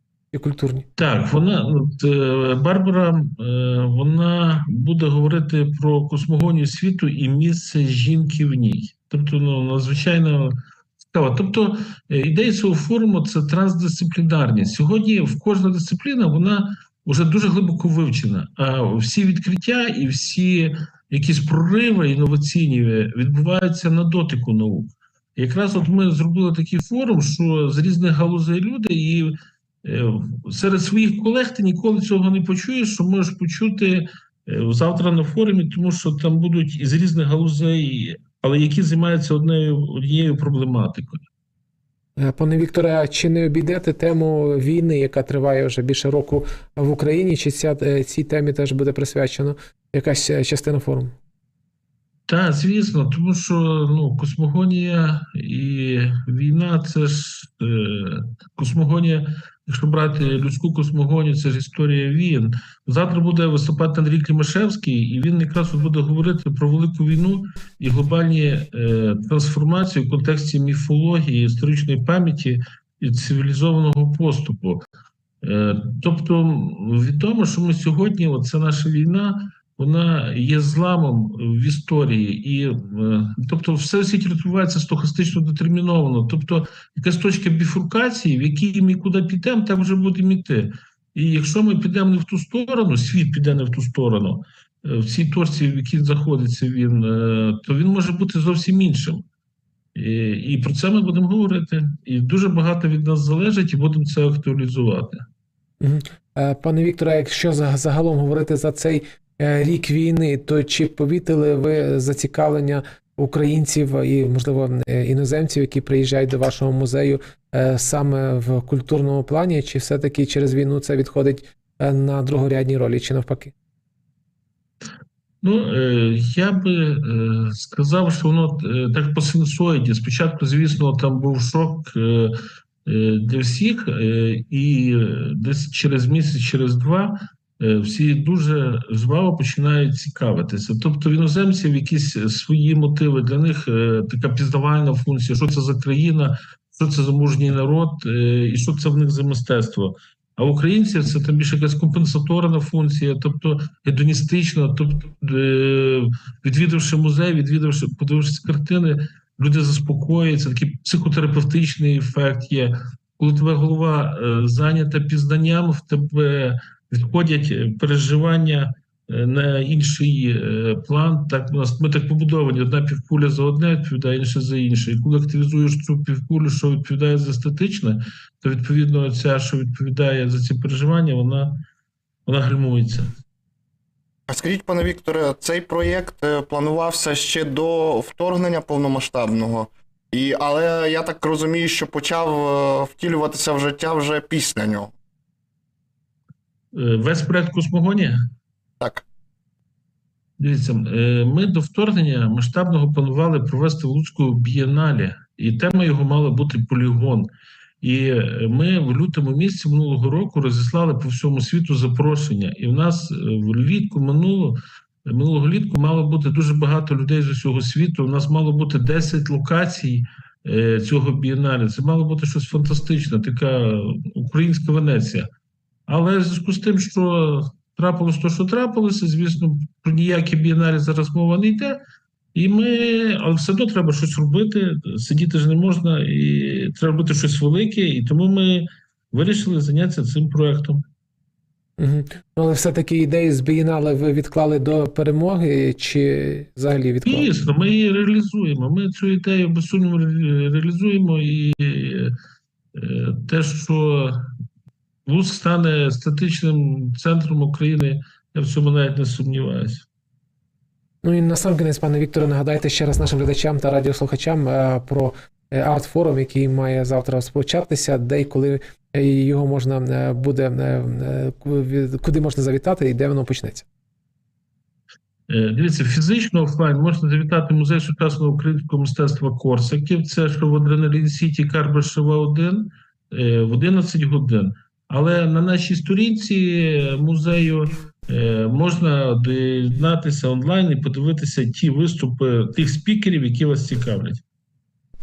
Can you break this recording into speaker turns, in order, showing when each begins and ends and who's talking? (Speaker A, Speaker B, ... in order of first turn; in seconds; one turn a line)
Speaker A: 0.3-0.9
Speaker B: 1.0-10.6
Speaker B: 11.1-41.2
Speaker A: 42.2-51.1
Speaker B: 52.3-74.8
Speaker B: 75.4-99.2
Speaker B: 100.0-105.2
Speaker A: 105.8-123.5
Speaker B: 125.4-181.6
Speaker B: 182.3-183.1
Speaker C: 184.3-194.9
Speaker B: 196.7-198.2
Speaker C: 198.8-199.1
Speaker B: 200.4-207.3
Speaker B: 207.8-225.3
Speaker B: 225.9-231.8
Speaker B: 232.3-240.8
Speaker A: 241.8-247.3
Speaker B: 247.1-252.1
Speaker B: 252.8-254.3
Speaker B: 255.1-259.9
Speaker A: 261.0-273.7
Speaker B: 275.3-294.2